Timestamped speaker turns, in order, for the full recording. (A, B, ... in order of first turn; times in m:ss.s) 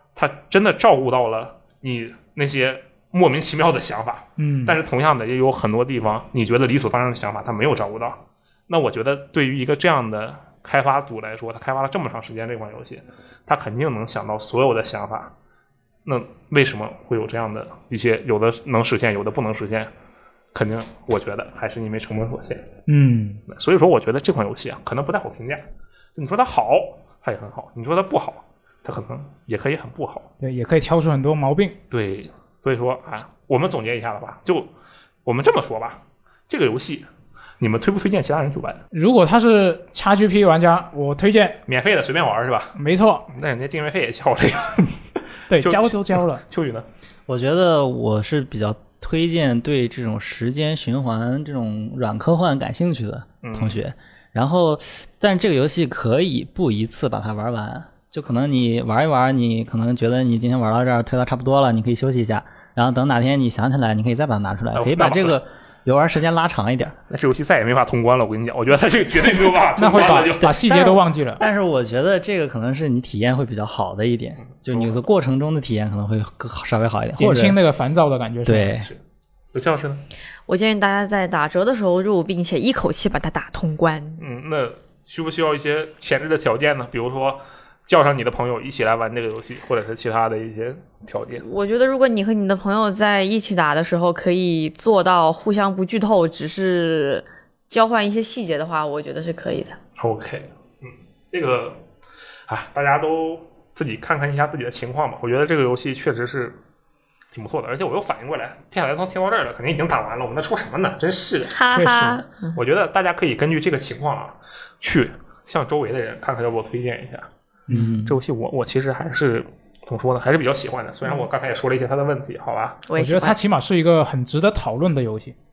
0:00.2-0:15.3 A
0:04.4-0:04.8 B
0:16.0-0:19.9 A
0:20.5-0:22.6 A
0:22.9-0:23.4 B
0:23.5-0:25.6 A
0:26.2-0:30.3 A
0:30.4-0:31.8 B
0:31.9-0:34.7 A
0:35.2-0:37.1 A
0:37.6-0:38.8 A
0:38.9-0:41.6 B
0:41.7-0:42.7 A
0:42.8-0:43.3 B
0:43.3-0:45.0 A
0:45.5-0:46.4 B
0:45.5-0:46.9 A
0:47.3-1:07.0 C
0:53.4-0:53.8 A
1:04.7-1:05.4 A
1:07.1-1:10.8 A
1:09.8-1:11.4 B
1:10.7-1:17.6 C
1:14.4-1:15.0 A
1:17.2-1:18.7 B
1:18.4-1:18.9 C
1:19.5-1:20.0 A
1:20.5-1:24.2 D
1:24.2-1:31.4 A
1:31.4-1:39.8 D
1:40.0-1:41.8 A
1:42.5-1:46.6 A
1:47.3-1:51.6 A
1:51.5-1:52.5 D
1:51.7-1:52.2 B
1:52.5-1:57.3 A
1:57.7-1:58.0 B
1:57.7-1:58.2 C
1:58.0-2:02.8 A
2:02.9-2:03.4 D
2:03.0-2:05.3 B